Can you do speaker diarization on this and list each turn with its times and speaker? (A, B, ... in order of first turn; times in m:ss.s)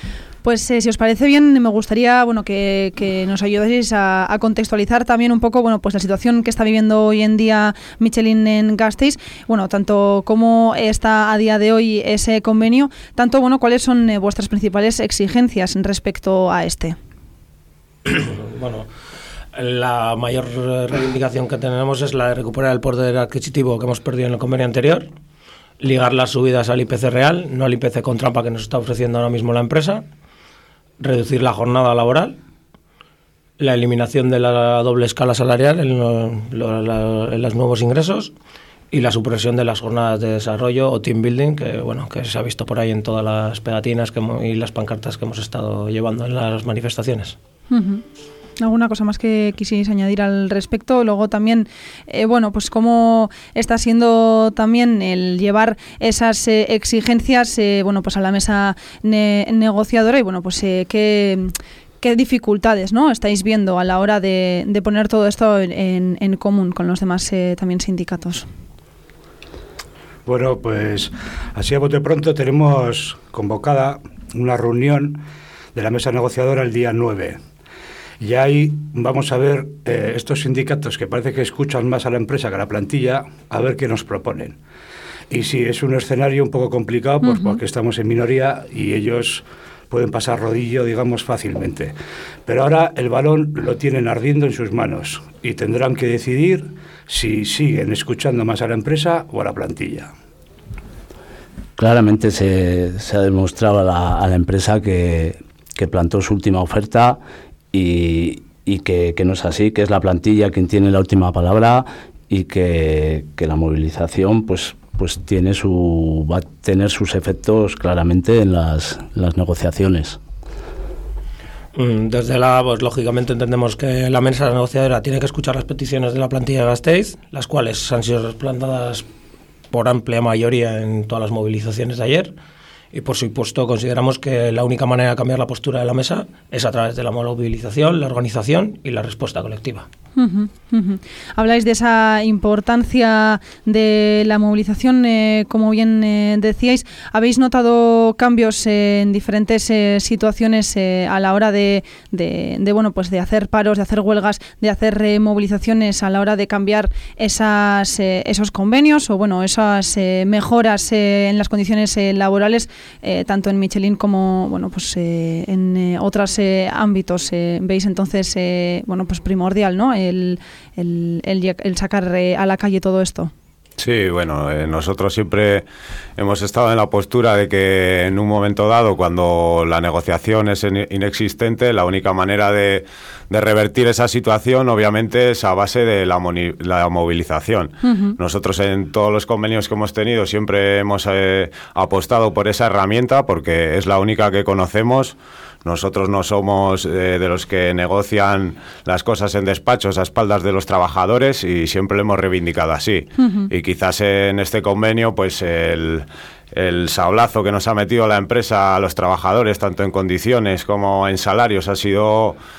0:00.4-0:17.0 A
0:18.1-0:18.9 B
0:19.6-0:25.1 B
0:25.8-0:30.0 B
0:31.0-0:32.4 B
0:33.6-0:38.3 B
0:38.9-0:47.4 B
0:47.7-0:48.0 A
0:48.6-1:08.5 A
1:10.3-1:15.2 C
1:15.8-1:17.4 C
1:18.2-1:24.6 C
1:25.3-1:40.1 C
1:27.2-1:27.6 A
1:41.8-1:47.2 D
1:47.7-2:00.2 D
2:01.8-2:09.1 B
2:09.7-2:12.3 B
2:12.9-2:19.9 B
2:20.2-2:53.3 A
2:53.8-2:55.6 E
2:56.2-3:32.4 E
3:07.8-3:08.2 A
3:23.2-3:23.5 A